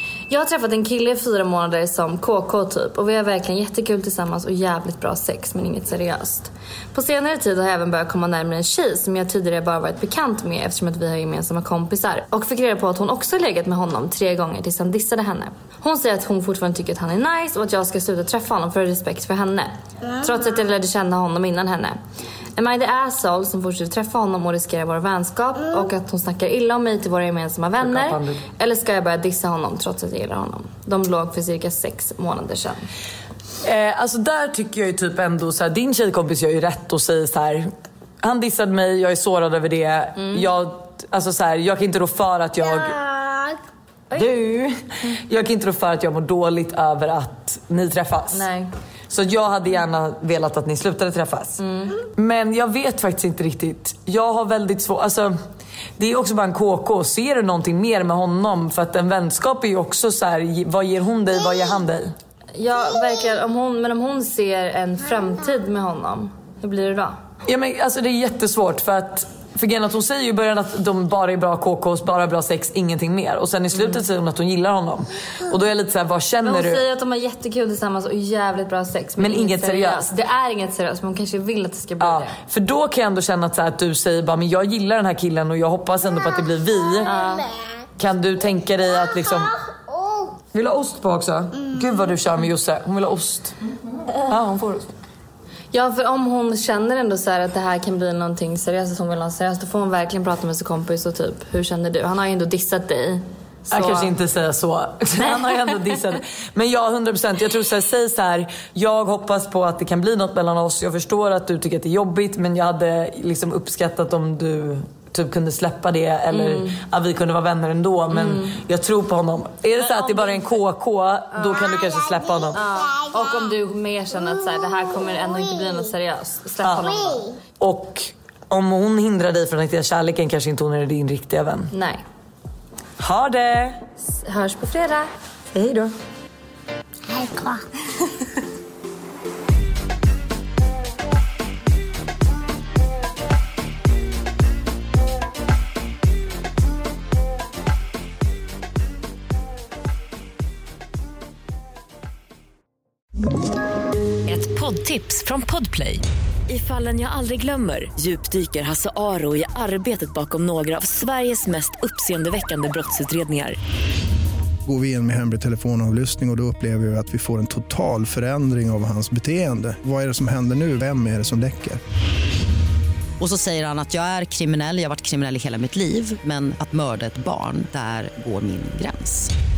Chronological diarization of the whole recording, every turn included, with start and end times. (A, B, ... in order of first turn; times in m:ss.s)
0:00.3-0:22.0 A
0:22.5-0:32.9 A
0:27.8-0:28.4 B
0:33.6-0:43.0 B
0:40.2-0:40.5 A
0:42.8-0:43.6 C
0:44.1-0:48.5 B
0:48.3-0:48.7 A
0:49.1-0:55.4 B
0:51.6-0:52.0 A
0:56.0-1:02.1 B
1:02.5-1:07.2 A
1:07.4-1:16.8 B
1:16.4-1:22.4 A
1:19.2-1:20.1 B
1:22.0-1:27.2 B
1:27.0-1:27.4 A
1:28.0-1:29.6 B
1:29.7-1:30.2 C
1:30.5-1:33.5 B
1:34.2-1:34.9 B
1:35.7-1:44.1 A
1:43.7-2:02.6 B
1:45.2-1:46.0 A
1:56.3-1:56.8 A
1:58.1-1:58.6 A
1:59.8-2:00.6 A
2:01.3-2:01.8 A
2:02.5-2:07.3 A
2:06.6-2:06.9 B
2:07.6-2:11.7 B
2:11.7-2:12.0 A
2:13.0-2:13.8 B
2:14.0-2:15.1 A
2:15.5-2:15.9 B
2:17.1-2:17.6 C
2:34.2-2:43.6 D
2:44.6-2:51.8 E
2:53.2-2:59.3 F